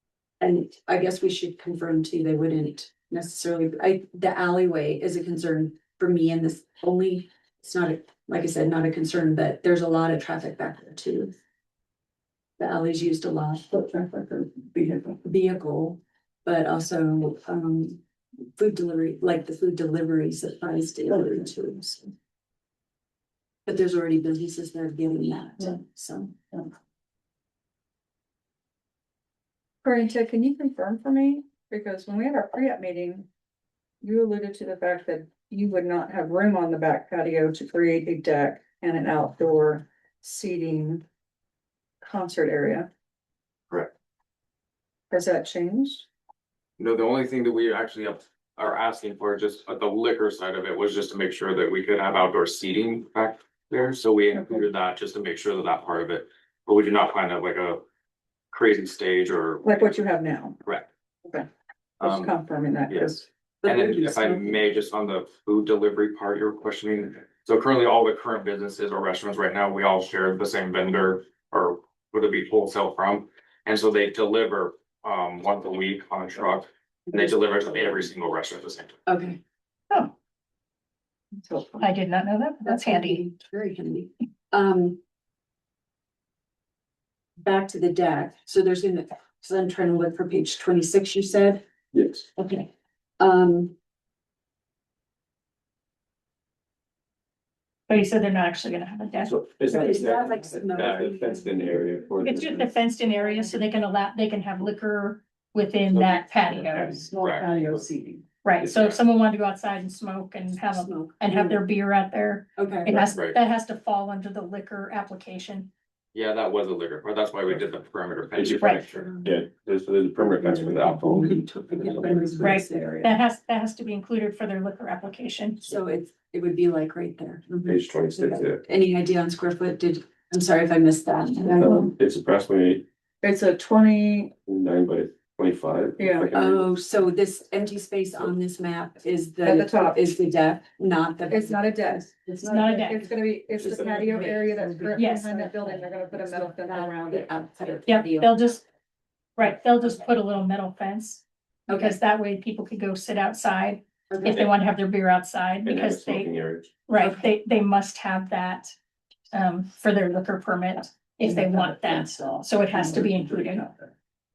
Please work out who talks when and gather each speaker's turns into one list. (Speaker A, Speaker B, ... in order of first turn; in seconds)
Speaker A: 0.4-11.4, 12.6-13.7, 15.2-18.0, 18.6-22.1, 23.7-26.6, 63.6-64.7, 79.1-79.4, 82.7-85.0, 87.4-91.6, 92.4-93.8, 99.7-101.8, 103.2-103.6, 110.7-111.6, 112.6-113.2, 118.8-119.5, 120.2-123.1, 125.6-131.9, 136.3-143.1, 143.6-148.5, 151.7-152.0, 154.1-154.5, 157.0-157.3
Speaker B: 13.7-15.2, 107.1-108.2
Speaker C: 29.8-33.3, 34.0-41.0, 42.0-42.9, 45.1-46.1, 54.3-54.6, 59.6-60.6, 62.0-63.3, 81.4-81.9, 133.2-134.3, 136.0-136.3, 139.4-140.1, 141.3-147.8
Speaker D: 46.8-57.8, 58.5-59.8, 62.0-62.4, 62.9-63.1, 63.6-79.0, 107.2-107.5, 108.7-109.0, 113.1-113.4, 116.2-119.1
Speaker E: 81.8-83.3, 97.9-99.5, 102.2-107.1, 108.4-115.7, 122.4-125.6, 142.4-143.1, 144.9-145.4, 147.9-148.6, 149.4-156.3, 156.9-158.7, 159.3-163.9
Speaker F: 91.9-92.3, 99.2-102.8, 105.9-107.1, 118.4-122.5, 127.7-128.6, 132.0-132.8, 134.5-136.7, 155.7-156.7